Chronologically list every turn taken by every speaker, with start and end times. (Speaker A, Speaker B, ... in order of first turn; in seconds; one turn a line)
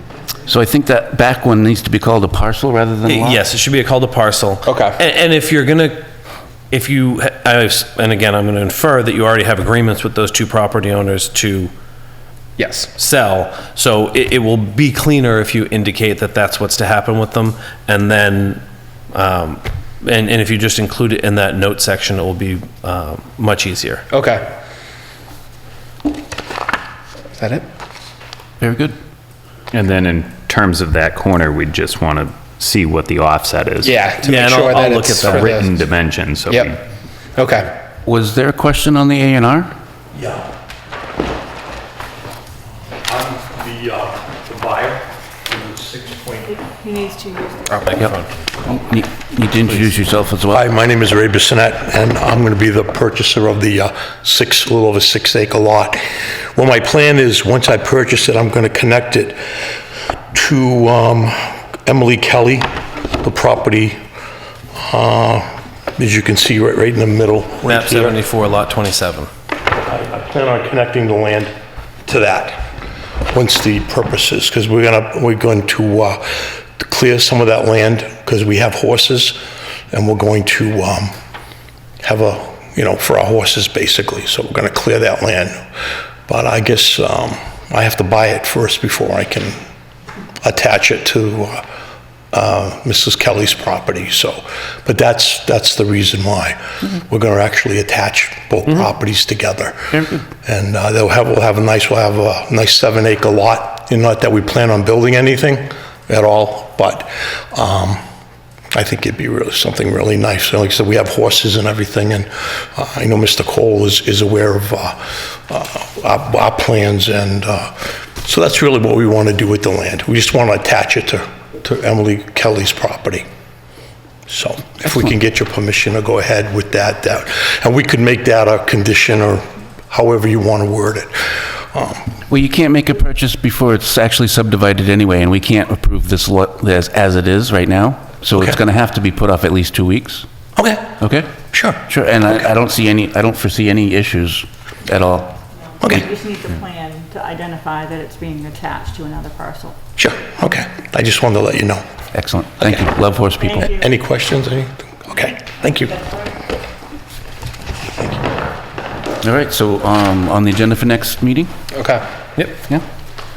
Speaker A: 0.5-3.4
Speaker B: 3.0-6.1
Speaker C: 4.7-5.0
Speaker B: 6.7-11.7
Speaker C: 12.6-12.9
Speaker B: 13.0-24.1
Speaker C: 24.1-24.5
Speaker C: 27.4-27.6
Speaker A: 28.6-29.0
Speaker D: 29.7-34.0
Speaker C: 33.8-35.8
Speaker B: 34.2-35.6
Speaker D: 35.4-36.8
Speaker C: 36.5-36.7
Speaker C: 37.4-37.7
Speaker A: 38.0-39.8
Speaker E: 40.1-40.5
Speaker E: 43.1-46.5
Speaker F: 46.5-47.9
Speaker B: 47.8-48.3
Speaker A: 48.0-50.6
Speaker E: 50.5-59.4
Speaker E: 60.3-62.7
Speaker E: 63.2-64.0
Speaker E: 64.8-68.2
Speaker B: 67.6-69.3
Speaker E: 69.8-71.5
Speaker E: 72.1-72.7
Speaker E: 73.3-79.4
Speaker E: 79.9-81.1
Speaker E: 82.0-85.6
Speaker E: 86.3-89.6
Speaker E: 90.4-91.6
Speaker E: 92.3-108.0
Speaker E: 108.7-123.3
Speaker E: 124.3-132.1
Speaker A: 132.3-140.3
Speaker E: 140.6-141.0
Speaker A: 141.0-145.4
Speaker E: 141.5-141.8
Speaker F: 145.8-149.8
Speaker E: 145.8-146.1
Speaker E: 150.0-151.8
Speaker A: 152.1-153.7
Speaker F: 153.4-153.9
Speaker E: 153.6-156.1
Speaker A: 159.2-161.5
Speaker C: 161.7-162.0